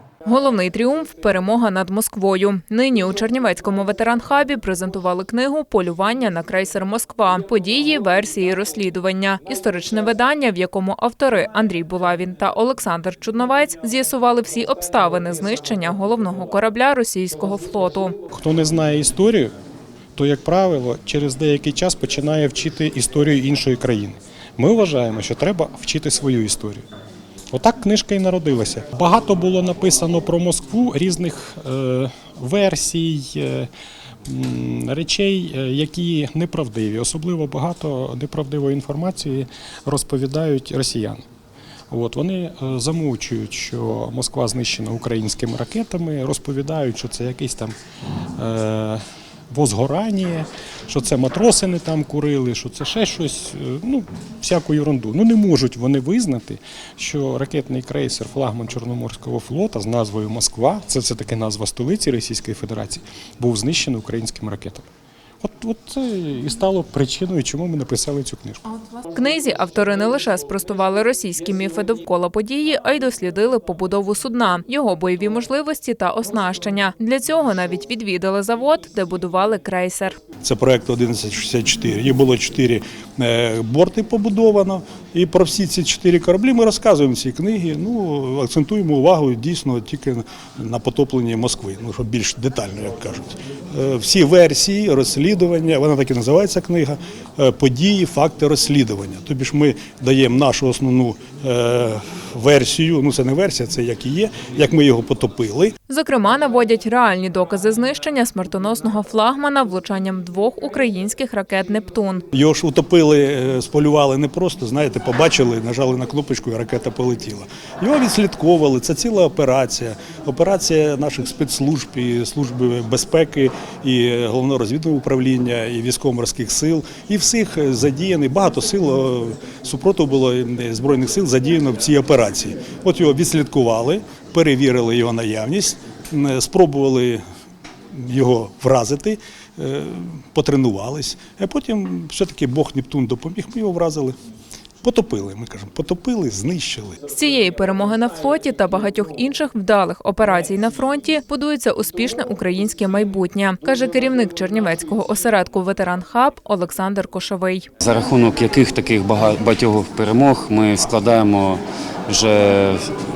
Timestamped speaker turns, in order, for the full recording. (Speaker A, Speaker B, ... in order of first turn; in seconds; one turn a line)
Speaker A: 0.2-18.2
Speaker B: 18.3-19.5
Speaker B: 20.1-26.8
Speaker B: 27.5-33.7
Speaker B: 34.3-41.2
Speaker B: 41.9-47.7
Speaker B: 48.4-64.9
Speaker B: 65.4-68.6
Speaker A: 69.0-80.2
Speaker C: 80.4-105.7
Speaker A: 105.9-112.2
Speaker C: 112.3-137.2
Speaker C: 137.9-144.2
Speaker C: 144.8-147.0
Speaker A: 147.1-157.7
Speaker D: 157.8-162.8